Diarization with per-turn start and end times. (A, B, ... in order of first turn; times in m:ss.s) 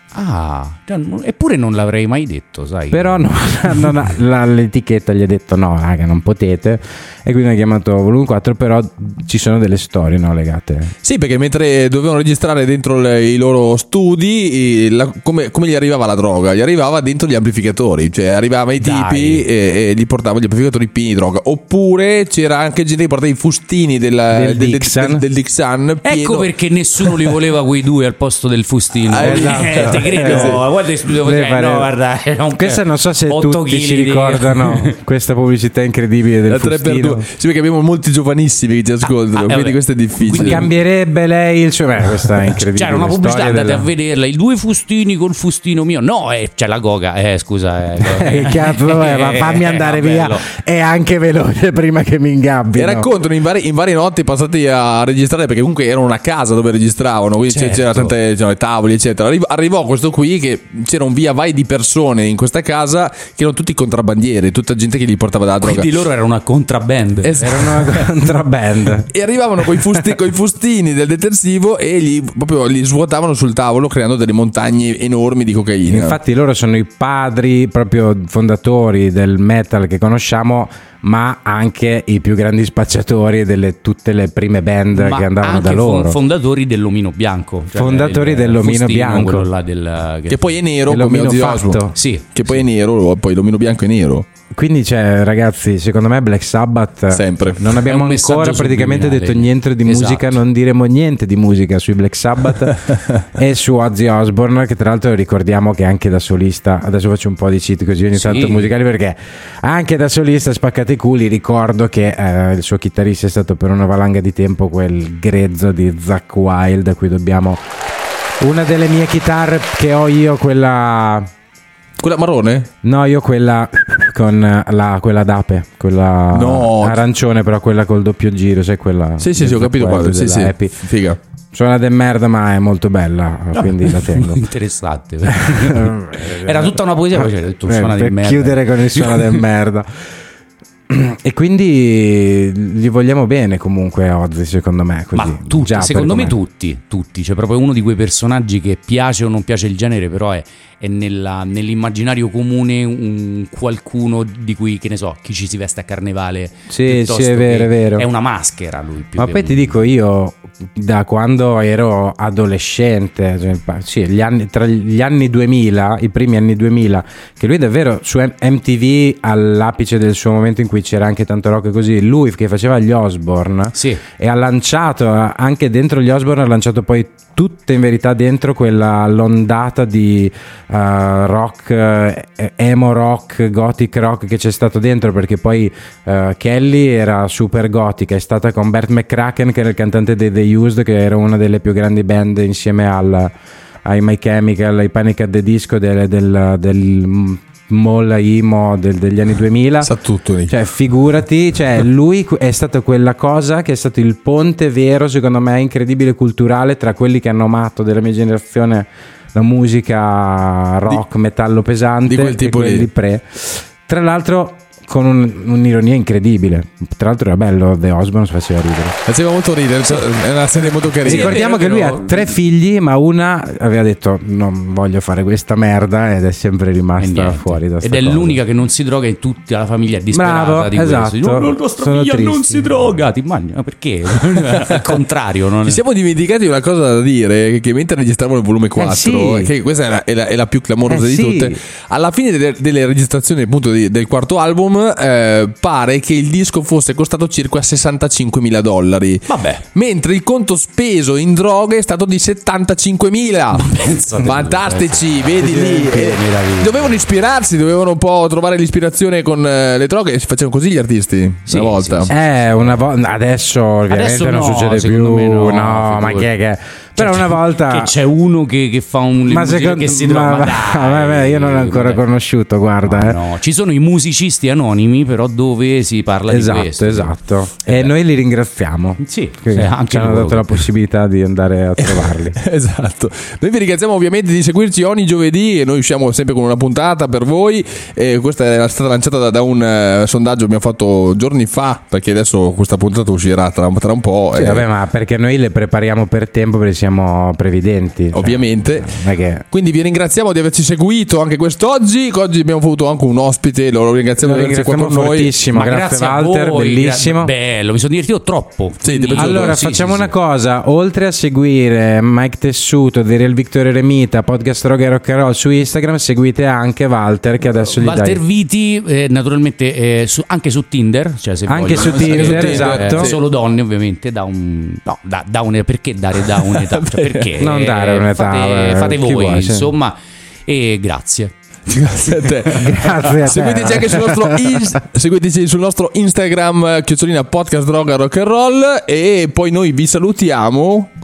0:00.1-0:03.9 A
0:02.9-0:10.9 B
0:11.0-0:26.5 C
0:18.8-0:19.4 A
0:24.3-0:25.2 B
0:26.0-0:34.9 A
0:27.0-0:27.4 C
0:29.1-0:30.6 C
0:29.1-0:30.6 B
0:31.2-0:31.9 B
0:32.5-0:37.3 B
0:36.5-0:40.6 C
0:39.0-0:40.7 A
0:40.3-0:43.9 B
0:42.6-0:50.5 A
0:48.0-0:53.1 B
0:52.8-1:05.9 C
0:57.5-0:58.2 A
1:05.6-1:08.0 A
1:07.2-1:07.8 C
1:07.4-1:09.1 B
1:09.1-1:16.2 C
1:15.8-1:26.2 B
1:24.9-1:30.6 A
1:27.7-1:29.5 B
1:30.3-1:31.8 C
1:30.9-1:32.0 B
1:31.9-1:32.6 A
1:32.3-1:34.3 C
1:34.5-1:57.6 B
1:37.1-1:37.7 C
1:37.8-1:40.4 A
1:48.1-1:48.7 A
1:58.4-2:01.3 B
2:02.0-2:02.7 C
2:02.8-2:10.8 B
2:06.3-2:07.0 C
2:09.2-2:11.2 C
2:11.5-2:14.4 B
2:13.7-2:19.4 A
2:15.3-2:19.9 B
2:20.9-2:26.4 B
2:25.1-2:39.7 A
2:36.7-2:38.0 B
2:39.2-3:13.3 B
2:53.8-2:54.0 A
3:13.8-3:19.9 B
3:19.8-3:20.5 C
3:20.5-3:39.0 B
3:32.0-3:32.9 C
3:39.0-3:41.4 C
3:41.0-3:42.4 A
3:41.0-3:48.4 B
3:47.0-3:55.8 A
3:50.1-3:52.7 B
3:55.6-4:22.1 C
3:58.8-3:59.5 B
4:00.9-4:01.6 B
4:09.3-4:09.6 A
4:13.5-4:17.0 A
4:21.5-4:22.8 A
4:22.1-4:27.9 B
4:23.9-4:26.3 A
4:27.0-4:32.0 A
4:29.2-4:33.2 B
4:32.8-4:37.1 A
4:36.3-4:42.4 B
4:39.0-4:40.7 A
4:41.8-4:54.6 C
4:54.3-4:59.4 B
4:58.1-4:59.0 C
4:59.5-5:05.3 C
5:04.2-5:07.3 B
5:05.5-5:10.1 A
5:08.8-5:09.6 C
5:09.1-5:18.2 B
5:17.8-5:30.0 A
5:21.4-5:23.2 B
5:21.7-5:23.2 C
5:26.8-5:27.3 C
5:27.4-5:29.7 B
5:30.5-5:31.3 A
5:31.7-5:40.9 C
5:32.4-5:34.8 B